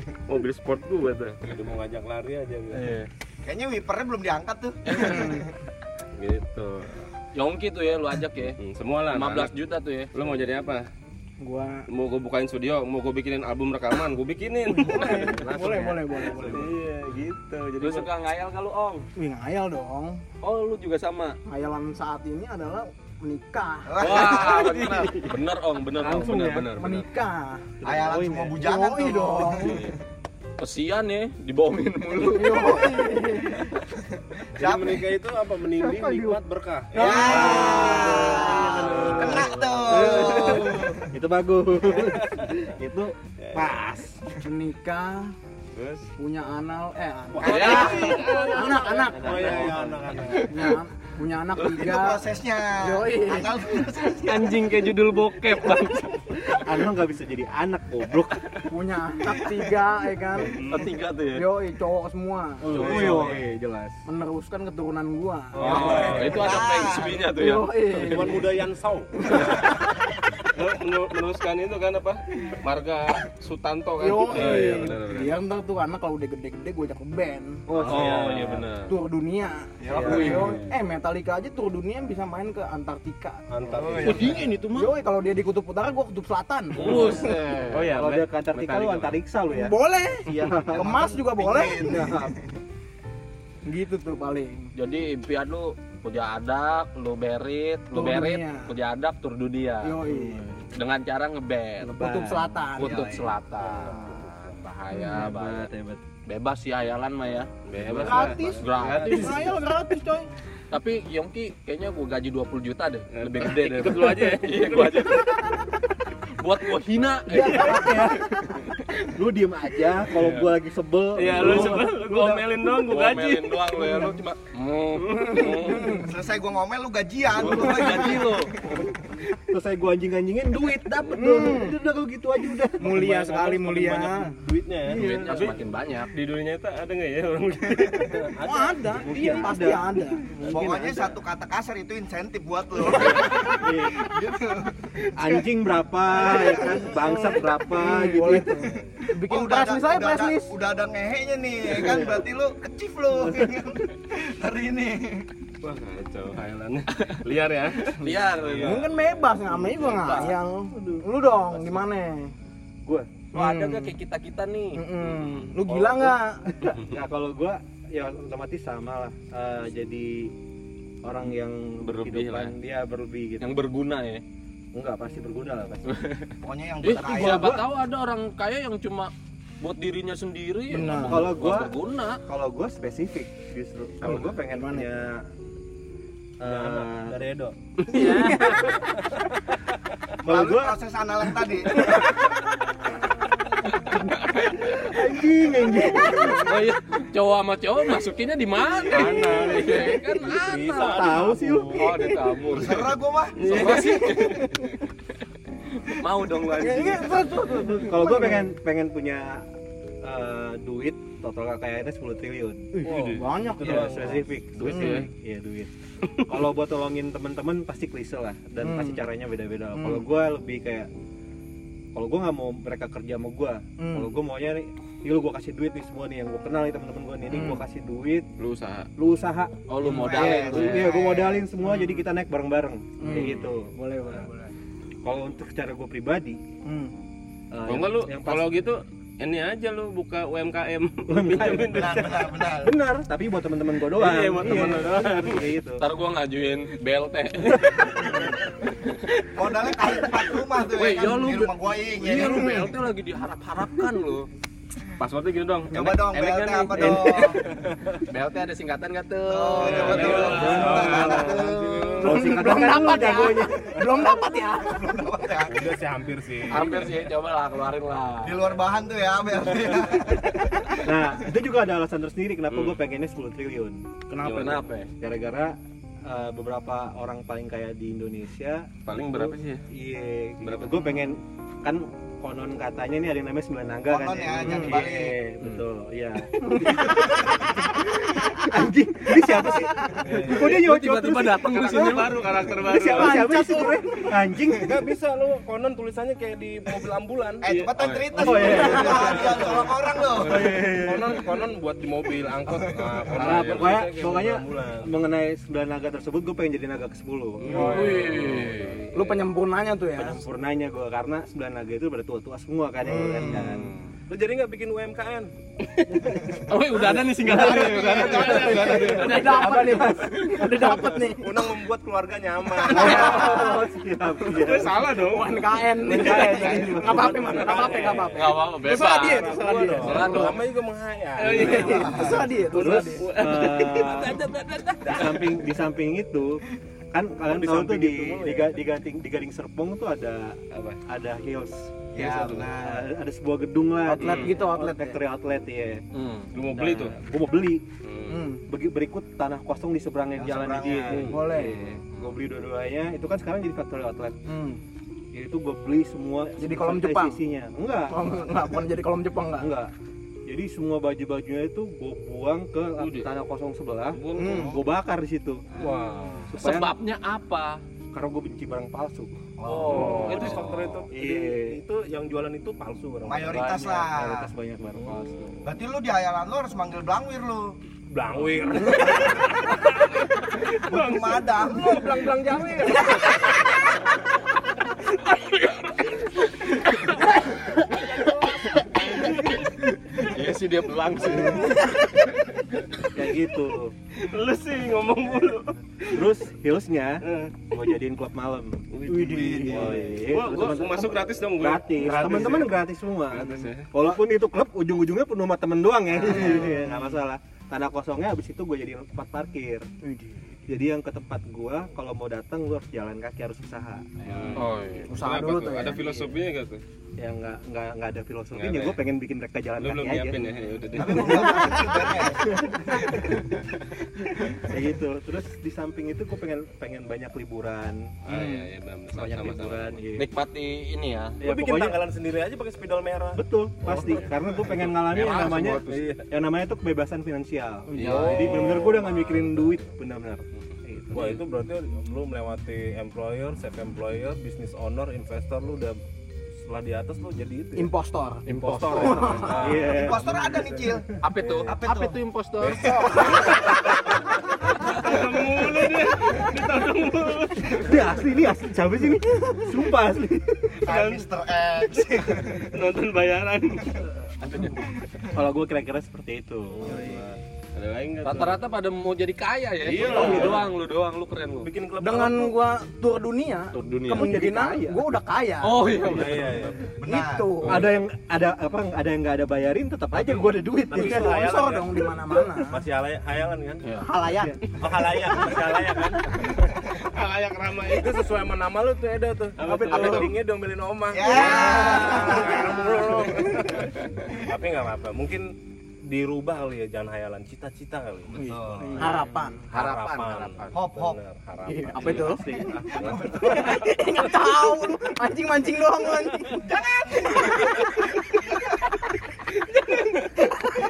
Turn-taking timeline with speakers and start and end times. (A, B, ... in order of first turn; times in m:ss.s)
0:00.3-0:01.4 A
0:01.4-0:02.9 B
0:02.7-0:03.1 C
0:03.4-0:05.5 D
0:04.9-0:05.4 C
0:05.0-0:05.4 E
0:06.2-0:07.1 A
0:07.4-0:10.1 C
0:08.6-0:09.5 A
0:10.1-0:10.9 A
0:11.4-0:11.9 E
0:11.9-0:15.4 A
0:14.8-0:16.7 E
0:15.4-0:16.0 C
0:16.2-0:18.1 A
0:17.8-0:19.1 C
0:19.2-0:20.2 E
0:20.4-0:21.4 C
0:21.5-0:23.9 E
0:23.9-0:25.0 D
0:24.0-0:27.0 C
0:24.4-0:25.2 A
0:26.0-0:26.9 F
0:26.8-0:29.8 E
0:27.8-0:29.9 D
0:27.9-0:28.5 F
0:30.6-0:32.9 C
0:32.2-0:33.7 E
0:33.0-0:33.3 D
0:34.5-0:37.1 B
0:34.6-0:35.1 D
0:35.8-0:36.4 E
0:37.0-0:39.2 E
0:37.0-0:41.1 D
0:37.0-0:40.5 C
0:37.1-0:44.2 F
0:39.2-0:39.5 B
0:44.4-0:45.3 E
0:45.8-0:46.1 A
0:46.2-0:53.9 E
0:47.4-0:48.4 C
0:47.4-0:48.2 D
0:47.4-0:50.7 B
0:47.6-0:49.0 A
0:49.2-0:49.9 F
0:51.6-0:54.7 D
0:54.2-0:56.4 C
0:56.6-0:58.5 F
0:58.7-1:00.7 E
1:00.6-1:01.5 C
1:01.3-1:03.1 E
1:02.7-1:03.9 F
1:02.7-1:03.4 B
1:02.7-1:03.4 C
1:04.1-1:05.8 E
1:05.5-1:06.5 B
1:05.6-1:08.1 C
1:05.6-1:06.2 F
1:06.2-1:07.3 D
1:07.3-1:08.5 E
1:07.9-1:09.7 B
1:09.2-1:10.1 E
1:10.5-1:15.4 A
1:14.0-1:17.6 E
1:17.7-1:18.5 F
1:17.7-1:18.9 B
1:17.9-1:18.7 C
1:18.9-1:23.4 E
1:19.8-1:20.5 D
1:19.9-1:20.4 F
1:20.0-1:20.6 C
1:23.5-1:24.4 B
1:23.8-1:24.4 D
1:24.0-1:24.9 C
1:24.7-1:27.2 E
1:26.8-1:27.9 C
1:26.9-1:27.2 B
1:27.7-1:29.2 A
1:27.9-1:29.8 F
1:29.5-1:32.3 E
1:30.3-1:30.6 A
1:30.7-1:32.4 D
1:33.7-1:34.7 E
1:34.8-1:40.0 C
1:37.9-1:38.8 E
1:39.8-1:40.6 E
1:40.1-1:40.4 F
1:40.8-1:42.0 C
1:41.8-1:43.3 F
1:42.0-1:43.3 E
1:42.8-1:45.7 C
1:43.9-1:44.2 B
1:45.1-1:46.0 F
1:46.3-1:49.5 C
1:47.7-1:49.6 A
1:48.0-1:50.3 E
1:50.7-1:55.6 C
1:53.1-1:55.3 A
1:56.4-1:58.1 C
1:57.3-1:58.2 E
1:57.3-1:58.2 F
1:59.1-2:02.4 F
2:00.1-2:00.5 C
2:01.2-2:03.8 A
2:01.4-2:01.8 C
2:02.7-2:06.1 C
2:03.8-2:04.2 E
2:05.1-2:06.1 E
2:06.0-2:08.9 D
2:07.4-2:08.5 C
2:09.5-2:13.0 F
2:11.1-2:11.8 E
2:12.8-2:14.4 E
2:12.8-2:15.2 B
2:14.9-2:15.4 E
2:14.9-2:16.1 C
2:15.3-2:18.2 A
2:18.1-2:19.9 B
2:18.4-2:21.2 E
2:18.9-2:19.9 F
2:20.5-2:25.4 D
2:23.1-2:23.9 F
2:25.2-2:28.7 F
2:26.3-2:26.8 D
2:26.4-2:30.5 E
2:28.7-2:35.3 D
2:35.6-2:38.0 A
2:37.0-2:37.2 C
2:38.0-2:38.9 C
2:38.3-2:40.1 B
2:38.6-2:42.3 E
2:39.8-2:40.3 C
2:43.3-2:44.0 E
2:43.3-2:44.9 C
2:44.7-2:46.8 E
2:45.0-2:45.6 A
2:46.8-2:50.3 F
2:51.0-2:53.6 F
2:51.8-2:52.5 A
2:53.4-2:54.2 C
2:54.7-2:55.9 F
2:56.4-2:57.6 D
2:56.8-3:02.2 C
3:00.7-3:01.3 E
3:01.1-3:01.7 F
3:02.3-3:05.2 F
3:04.2-3:04.9 E
3:06.4-3:07.2 F
3:06.4-3:07.5 B
3:07.9-3:08.8 C
3:07.9-3:08.8 E
3:10.2-3:10.8 F
3:10.2-3:11.9 D
3:13.7-3:15.0 C
3:14.8-3:16.5 F
3:16.0-3:16.4 E
3:16.0-3:24.6 C
3:18.6-3:21.9 B
3:19.2-3:19.6 F
3:20.8-3:22.2 F
3:22.5-3:24.6 D
3:23.4-3:24.5 A
3:25.9-3:27.9 C
3:26.6-3:29.4 F
3:27.6-3:28.4 E
3:30.0-3:32.8 F
3:32.8-3:34.1 E
3:32.8-3:34.3 B
3:32.9-3:33.2 C
3:33.6-3:35.7 F
3:34.6-3:35.1 A
3:34.7-3:35.1 E
3:36.3-3:40.9 F
3:38.6-3:39.0 E
3:39.8-3:40.0 E
3:42.0-3:48.3 F
3:43.8-3:44.1 E
3:48.4-3:48.9 A
3:49.0-3:54.2 F
3:49.7-3:51.0 C
3:49.9-3:51.4 D
3:51.7-3:52.0 E
3:53.0-3:54.5 E
3:55.0-3:56.4 F
3:56.6-3:56.9 E
3:57.5-3:58.5 F
3:57.6-4:02.2 A
4:01.1-4:05.8 F
4:01.6-4:02.7 D
4:04.0-4:05.5 A
4:04.4-4:04.9 E
4:05.8-4:08.3 C
4:08.8-4:09.1 C
4:09.3-4:12.7 D
4:09.6-4:10.1 C
4:10.7-4:14.3 C
4:12.1-4:12.7 E
4:15.0-4:15.7 A
4:15.7-4:17.4 D
4:15.8-4:17.3 C
4:16.7-4:17.4 F
4:18.0-4:21.1 C
4:19.3-4:21.9 D
4:19.6-4:21.7 A
4:19.8-4:22.0 B
4:19.9-4:24.1 F
4:22.0-4:25.1 E
4:24.0-4:25.7 D
4:25.5-4:26.9 B
4:26.5-4:28.5 C
4:28.2-4:30.8 D
4:30.8-4:33.9 F
4:32.5-4:32.8 A
4:34.1-4:34.9 C
4:34.1-4:34.6 E
4:34.3-4:34.5 A
4:35.0-4:51.7 F
4:38.9-4:39.6 A
4:40.4-4:40.8 A
4:43.9-4:45.2 D
4:44.4-4:44.8 E
4:46.5-4:46.9 E
4:49.5-4:50.1 E
4:50.1-4:52.2 C
4:50.1-4:50.6 B
4:51.5-4:53.2 A
4:52.6-4:54.1 E
4:52.6-4:54.8 F
4:54.6-4:57.5 B
4:57.4-5:00.6 D
4:57.4-4:58.0 A
4:58.1-4:59.7 F
4:58.4-4:59.7 B
4:58.5-4:59.1 E
5:00.2-5:01.2 F
5:00.4-5:05.0 B
5:03.1-5:08.0 F
5:03.2-5:03.8 A
5:07.4-5:08.8 A
5:07.5-5:09.3 B
5:07.5-5:08.8 C
5:08.9-5:10.2 E
5:10.0-5:13.7 F
5:12.9-5:13.6 E
5:13.3-5:13.7 A
5:14.1-5:15.3 B
5:16.4-5:19.2 C
5:16.8-5:19.7 B
5:17.3-5:19.9 A
5:17.6-5:21.5 E
5:18.0-5:20.4 F
5:20.4-5:23.6 B
5:22.7-5:23.7 E
5:22.7-5:24.8 F
5:24.2-5:26.8 A
5:24.9-5:30.3 E
5:25.8-5:27.5 F
5:26.1-5:26.5 D
5:26.7-5:31.9 B
5:28.1-5:30.4 C
5:29.4-5:30.1 F
5:31.2-5:34.0 A
5:31.4-5:32.3 D
5:31.4-5:33.1 E
5:32.5-5:33.0 B
5:32.5-5:34.2 F
5:33.6-5:35.2 C
5:34.8-5:40.4 F
5:37.5-5:38.4 E
5:40.5-5:40.8 A
5:40.9-5:45.8 F
5:41.9-5:42.9 D
5:43.9-5:45.0 E
5:44.0-5:44.3 A
5:44.0-5:44.3 C
5:45.9-5:46.3 C
5:46.3-5:47.0 A
5:46.6-5:47.6 F
5:47.8-5:48.2 A
5:48.1-5:48.4 E
5:48.4-5:54.2 F
5:50.2-5:51.2 D
5:51.1-5:51.7 E
5:51.2-5:51.8 A
5:54.3-5:54.6 E
5:55.1-5:58.3 F
5:56.4-5:57.2 E
5:57.9-5:59.5 E
5:59.4-5:59.7 F
6:00.3-6:05.4 F
6:02.8-6:03.1 A
6:03.9-6:04.6 A
6:04.2-6:04.6 E
6:05.6-6:07.6 C
6:05.6-6:06.3 B
6:06.3-6:06.8 F
6:07.9-6:09.2 F
6:09.4-6:10.2 D
6:09.4-6:10.4 C
6:09.7-6:13.7 B
6:10.0-6:10.8 A
6:10.9-6:11.6 F
6:13.0-6:14.3 D
6:13.4-6:15.5 F
6:15.4-6:17.6 D
6:17.9-6:20.1 B
6:18.6-6:19.0 C
6:19.2-6:21.7 A
6:20.5-6:22.1 D
6:21.7-6:22.9 B
6:25.1-6:25.7 C
6:26.6-6:27.0 C
6:27.7-6:28.7 B
6:28.8-6:29.1 C
6:28.8-6:29.3 A
6:29.9-6:31.7 C
6:31.4-6:31.9 E
6:32.9-6:33.8 F
6:34.0-6:36.1 A
6:35.9-6:49.7 F
6:37.0-6:37.4 A
6:38.8-6:39.8 D
6:39.1-6:43.7 A
6:39.2-6:39.6 E
6:39.7-6:40.1 B
6:42.0-6:42.3 B
6:46.1-6:46.6 E
6:49.8-6:50.2 E
6:50.5-6:53.9 F
6:54.0-6:56.6 A
6:54.3-6:54.9 C
6:54.9-6:56.1 E
6:57.0-7:00.3 F
6:58.4-6:58.8 A
6:59.6-7:01.6 A
7:00.8-7:02.4 D
7:00.9-7:01.3 F
7:04.4-7:08.0 F
7:08.0-7:09.8 A
7:08.9-7:10.1 F
7:10.0-7:11.2 C
7:11.2-7:14.0 B
7:11.2-7:11.8 F
7:13.1-7:21.2 F
7:14.4-7:16.0 A
7:15.1-7:16.0 B
7:17.7-7:18.7 C
7:17.8-7:19.2 B
7:18.2-7:19.5 A
7:20.9-7:25.8 B
7:26.4-7:27.7 B
7:27.6-7:29.4 E
7:28.3-7:30.1 B
7:28.3-7:29.3 C
7:29.3-7:30.1 F
7:29.6-7:30.9 D
7:31.0-7:33.4 C
7:31.2-7:31.6 B
7:31.5-7:32.0 D
7:32.4-7:33.5 B
7:32.6-7:33.6 D
7:34.4-7:37.8 A
7:37.6-7:40.6 F
7:40.6-7:42.5 D
7:40.7-7:41.1 A
7:42.5-7:43.9 A
7:45.1-7:47.1 F
7:46.7-7:47.1 B
7:47.6-7:48.4 A
7:48.0-7:51.5 C
7:49.7-7:50.6 B
7:49.7-7:50.5 A
7:51.4-7:52.4 B
7:51.8-7:55.7 E
7:53.5-7:54.5 C
7:53.9-7:54.8 F
7:55.4-7:56.4 C
7:55.7-7:56.7 B
7:56.8-7:57.5 D
7:56.8-7:57.7 E
7:57.4-7:57.7 A
7:57.4-8:01.1 F
8:00.5-8:02.6 E
8:00.7-8:03.6 B
8:03.8-8:04.6 E
8:04.6-8:06.2 B
8:06.7-8:08.1 A
8:07.5-8:15.3 B
8:09.4-8:10.2 A
8:09.4-8:10.1 E
8:10.9-8:12.5 D
8:11.6-8:12.6 E
8:13.5-8:13.7 A
8:15.9-8:23.7 B
8:18.2-8:19.0 D
8:18.2-8:19.5 E
8:18.8-8:20.6 C
8:20.5-8:21.0 D
8:21.5-8:22.4 E
8:22.3-8:23.8 D
8:23.2-8:26.5 E
8:26.4-8:28.5 D
8:27.2-8:27.7 E